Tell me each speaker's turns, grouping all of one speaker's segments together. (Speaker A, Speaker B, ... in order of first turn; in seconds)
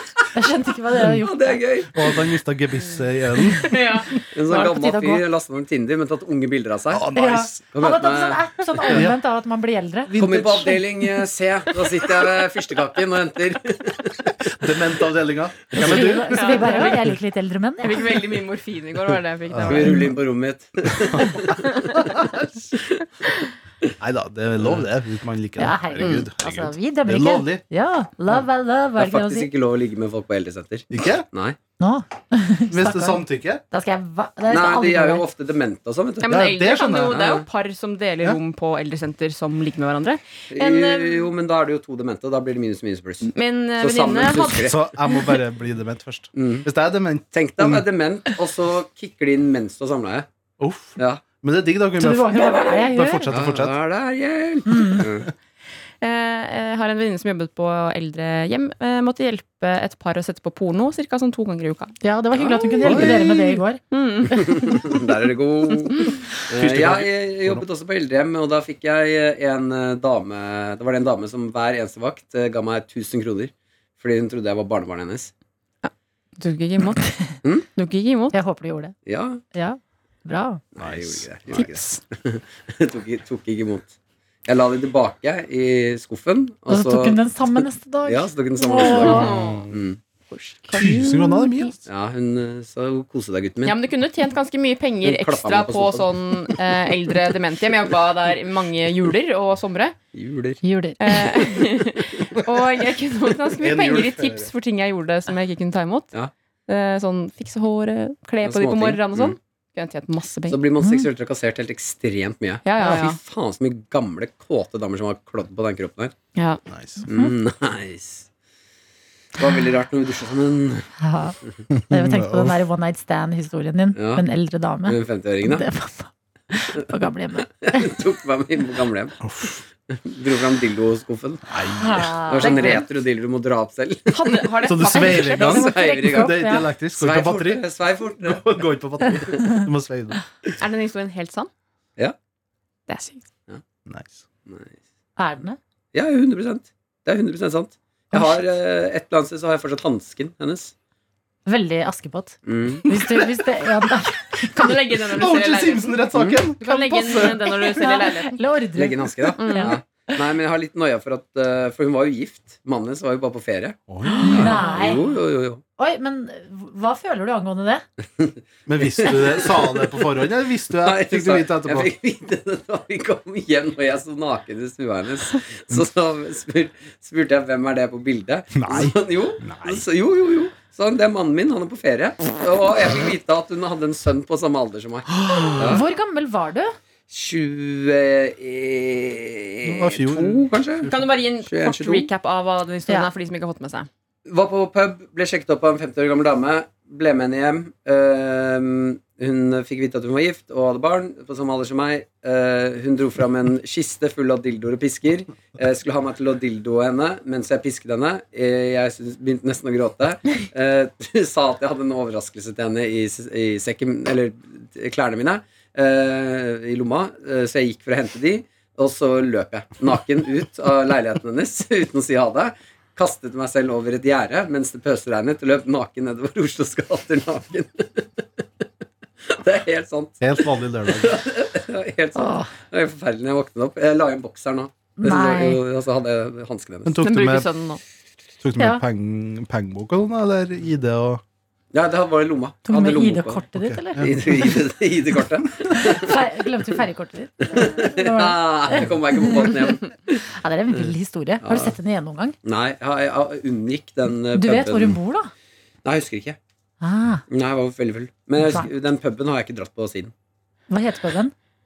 Speaker A: 0.3-1.6, 4.5-5.2, 7.2-10.1, 15.7-18.1, 25.6-29.5, 31.8-35.2, 52.0-53.3, 54.7-55.0, 62.0-64.4, 78.3-78.9, 79.5-80.6, 86.7-89.3, 90.7-91.7, 100.6-101.7, 110.8-111.1, 117.0-117.3, 121.0-121.4, 121.9-128.0, 131.8-132.8, 134.9-136.7, 145.2-145.6, 148.1-148.4, 151.5-154.8, 156.7-160.2, 164.1-165.0, 165.8-167.8, 185.5-186.8, 232.2-232.5, 235.0-235.6, 242.7-244.1, 245.7-249.6, 250.3-252.4, 254.3-255.3, 256.8-257.2, 258.4-258.7, 260.7-261.3
Speaker B: 1.2-1.9, 4.3-7.1, 7.7-8.5, 10.1-14.3, 19.6-21.6, 24.6-24.9, 29.0-31.6, 34.5-37.5, 40.5-44.8, 46.4-46.7, 47.3-50.3, 51.0-51.2, 53.3-55.3, 62.4-63.2, 64.3-75.3, 79.1-79.4, 80.8-83.9, 84.5-90.0, 91.9-93.8, 95.0-96.1, 100.1-100.6, 108.4-109.4, 110.5-116.2, 117.1-118.3, 119.4-120.9, 124.0-124.2, 124.9-125.7, 127.6-129.2, 129.9-131.5, 132.3-139.4, 144.5-144.7, 145.9-150.7, 152.5-152.9, 158.8-165.6, 168.2-169.9, 170.8-185.8, 187.1-192.1, 194.3-228.4, 229.3-237.0, 241.7-243.4, 244.0-246.2, 247.5-250.2, 251.4-251.7, 252.4-255.0, 255.8-256.4, 257.3-260.1
Speaker C: 1.9-3.8, 6.9-7.6, 8.9-9.2, 10.1-10.9, 14.5-16.8, 19.5-20.0, 21.9-22.6, 24.0-27.6, 30.9-31.2, 32.7-33.6, 36.3-37.2, 44.6-47.9, 50.6-53.8, 62.8-63.5, 66.5-67.6, 80.8-81.7, 90.7-91.8, 103.6-104.5, 116.7-117.0, 121.7-122.6, 129.2-129.6, 131.5-132.2, 134.7-137.7, 138.2-140.2, 143.9-144.2, 155.1-157.5, 163.9-164.7, 168.7-171.9, 178.5-179.8, 185.1-185.8, 189.6-191.1, 230.2-231.2, 236.8-237.5, 238.4-241.2, 243.5-244.6
Speaker D: 3.6-4.2, 16.3-17.1, 17.8-20.1, 21.6-21.9, 36.2-41.3, 43.3-44.7, 56.0-62.0, 63.9-65.0, 65.8-66.1, 75.8-77.2, 77.8-78.4, 81.5-82.0, 88.8-89.7, 90.3-91.2, 93.6-100.0, 101.0-106.1, 106.7-110.6, 112.6-113.2, 116.3-116.6, 132.4-132.8, 134.1-135.6, 140.6-141.5, 142.9-143.3, 154.5-156.0, 156.6-158.4, 159.4-159.8, 190.9-193.9, 237.0-237.8